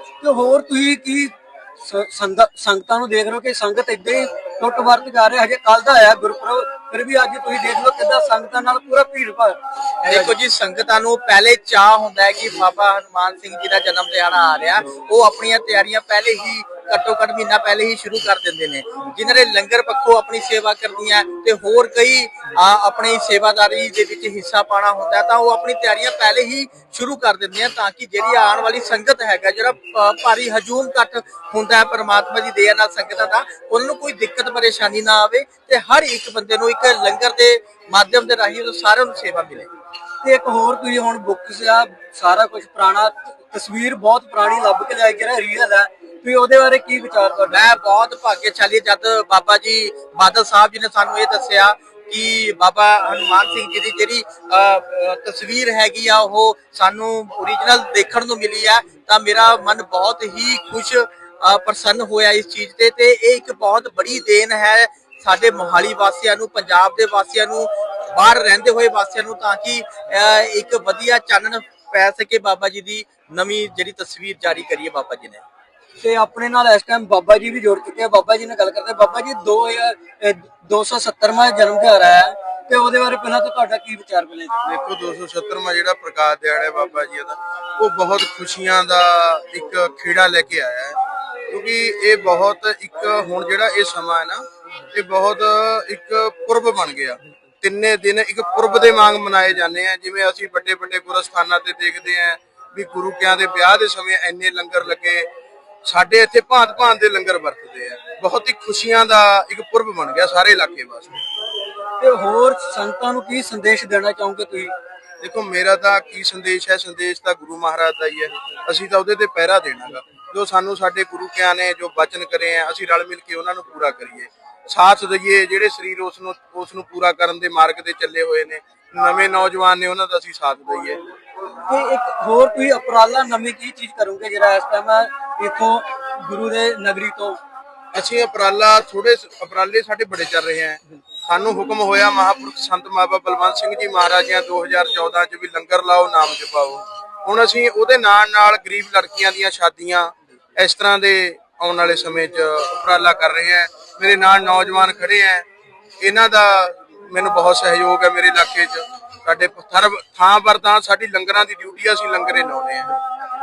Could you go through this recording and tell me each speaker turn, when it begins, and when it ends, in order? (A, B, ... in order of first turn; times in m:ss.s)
0:00.2-0:10.3 A
0:10.1-0:39.7 B
0:40.2-0:47.7 A
0:47.5-1:15.4 B
1:16.0-1:24.5 A
1:24.6-1:31.0 C
1:31.5-1:45.3 C
1:45.9-1:51.2 C
1:52.0-1:54.7 A
1:55.2-2:11.0 C
2:11.6-2:17.4 A
2:17.9-2:35.5 C
2:36.0-2:42.9 C